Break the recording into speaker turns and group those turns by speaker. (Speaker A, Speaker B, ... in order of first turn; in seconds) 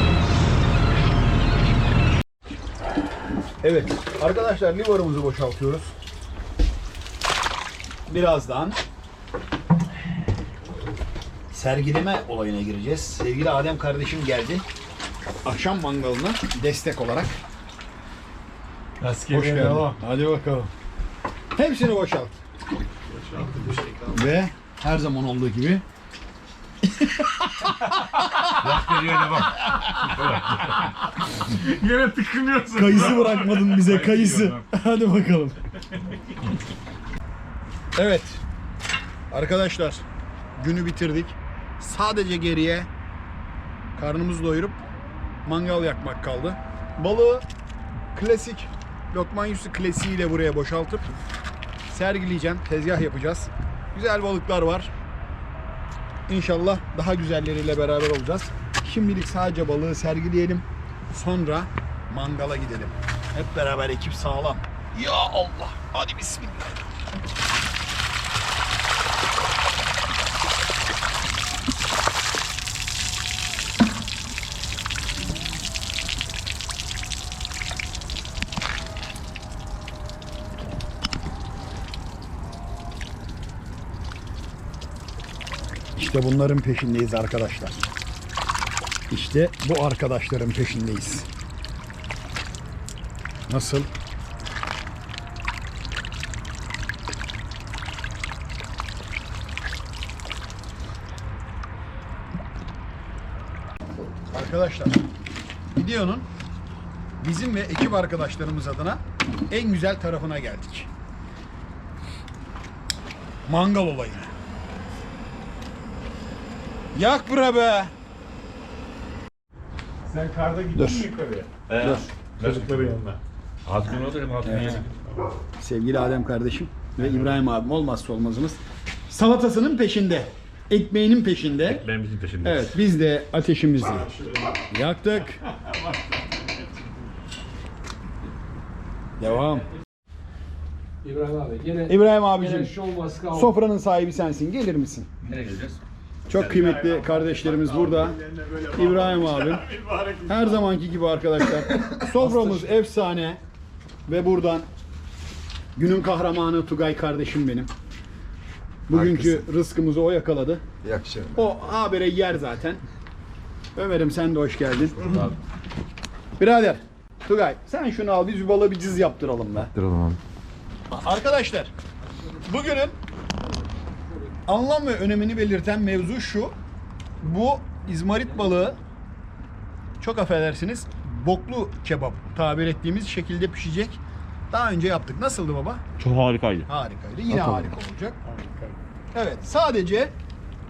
Speaker A: 3.6-5.9, 8.1-8.8, 11.5-14.6, 15.4-17.4, 19.3-20.7, 21.6-22.4, 24.1-25.8, 26.8-30.1, 32.7-35.6, 38.0-38.4, 39.3-40.0, 40.5-42.9, 44.0-44.8, 45.4-47.5, 48.1-51.0, 51.9-54.9, 56.3-66.8, 86.0-87.8, 89.1-91.3, 93.5-93.9, 104.3-105.0, 105.7-106.3, 107.2-110.9, 113.5-114.3, 116.9-117.9, 120.7-121.1, 121.8-122.5, 124.4-124.9, 125.6-131.8, 132.4-134.1, 134.7-135.4, 139.2-139.7, 141.9-142.8, 143.3-145.1, 146.3-149.7, 150.2-153.4, 154.1-154.7, 155.8-157.7, 158.9-160.6, 161.3-162.8, 163.7-165.0, 166.4-169.7, 170.9-171.7, 172.4-172.9, 174.4-176.6, 177.2-178.8, 180.0-185.8, 186.7-188.2, 189.1-190.1
Speaker B: 19.0-20.0, 23.1-24.1, 31.4-34.6, 120.0-121.5, 122.4-123.2, 134.1-134.5, 135.6-135.9, 146.4-150.6
Speaker C: 28.5-30.9, 121.7-122.9, 123.7-124.9, 131.7-132.8, 145.2-145.8, 165.0-165.3, 186.0-186.7
Speaker D: 141.0-143.5
Speaker E: 151.6-152.6, 158.9-159.4, 160.8-161.5, 169.7-170.2